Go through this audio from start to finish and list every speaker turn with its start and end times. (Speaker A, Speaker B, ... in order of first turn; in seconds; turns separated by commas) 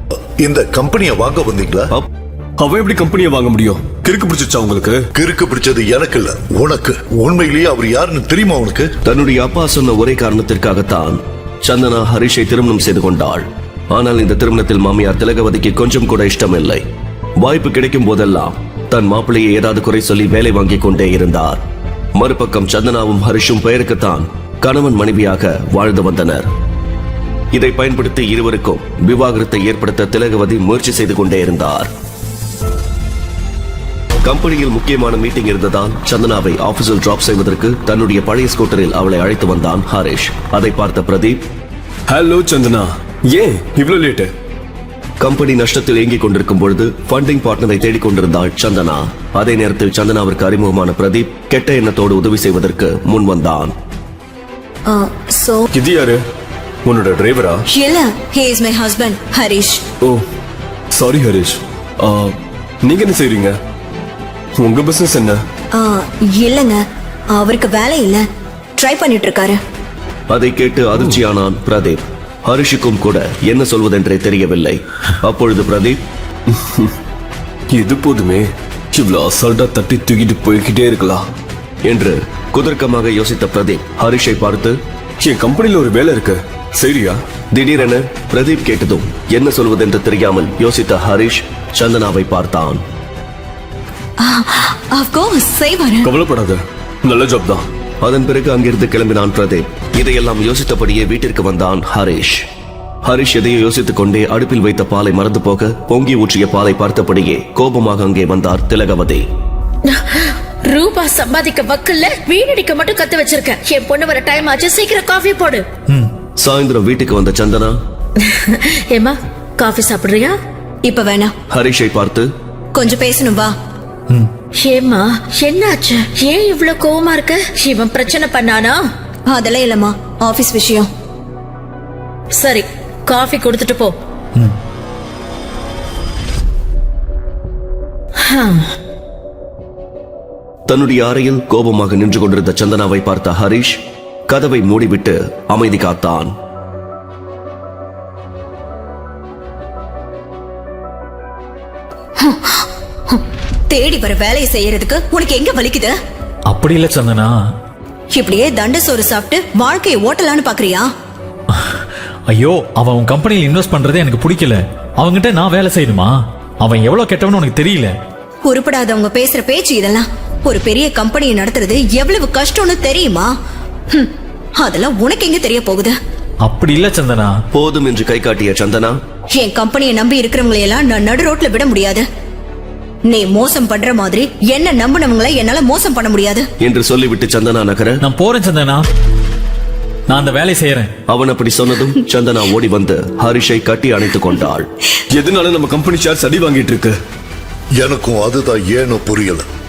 Speaker A: 0.4-1.9, Speaker B: 2.6-5.1, Speaker A: 5.2-8.9, Speaker C: 9.1-16.8, Speaker C: 17.4-21.6, Speaker C: 22.1-26.5, Speaker C: 27.5-31.9, Speaker C: 34.2-41.4, Speaker B: 42.1-44.3, Speaker C: 45.2-53.7, Speaker D: 54.9-55.7, Speaker B: 55.7-56.3, Speaker B: 56.8-57.7, Speaker D: 57.7-59.8, Speaker B: 60.0-60.3, Speaker B: 60.9-63.6, Speaker B: 64.6-65.5, Speaker D: 65.8-66.8, Speaker D: 67.3-68.2, Speaker D: 68.8-69.6, Speaker C: 70.3-76.0, Speaker B: 76.5-76.9, Speaker B: 77.7-81.3, Speaker C: 81.8-84.8, Speaker B: 85.2-87.2, Speaker C: 87.5-92.8, Speaker D: 94.2-96.1, Speaker B: 96.0-97.7, Speaker C: 98.0-102.5, Speaker C: 103.0-109.2, Speaker E: 109.8-115.6, Speaker C: 116.4-117.8, Speaker E: 118.2-120.3, Speaker D: 120.8-121.3, Speaker C: 121.5-122.3, Speaker D: 122.7-123.5, Speaker E: 124.6-128.8, Speaker D: 129.3-130.9, Speaker E: 132.4-133.9, Speaker E: 138.2-138.7, Speaker C: 140.7-146.3, Speaker D: 152.2-153.2, Speaker D: 153.7-155.9, Speaker F: 156.5-157.3, Speaker D: 158.1-160.9, Speaker F: 162.3-167.9, Speaker D: 168.4-173.3, Speaker D: 173.9-175.9, Speaker F: 176.4-177.3, Speaker C: 177.5-179.0, Speaker D: 179.3-182.0, Speaker D: 183.1-186.5, Speaker C: 186.6-188.0, Speaker F: 188.0-188.8, Speaker F: 190.1-190.9, Speaker C: 191.1-194.7, Speaker B: 195.1-197.0, Speaker A: 197.8-199.4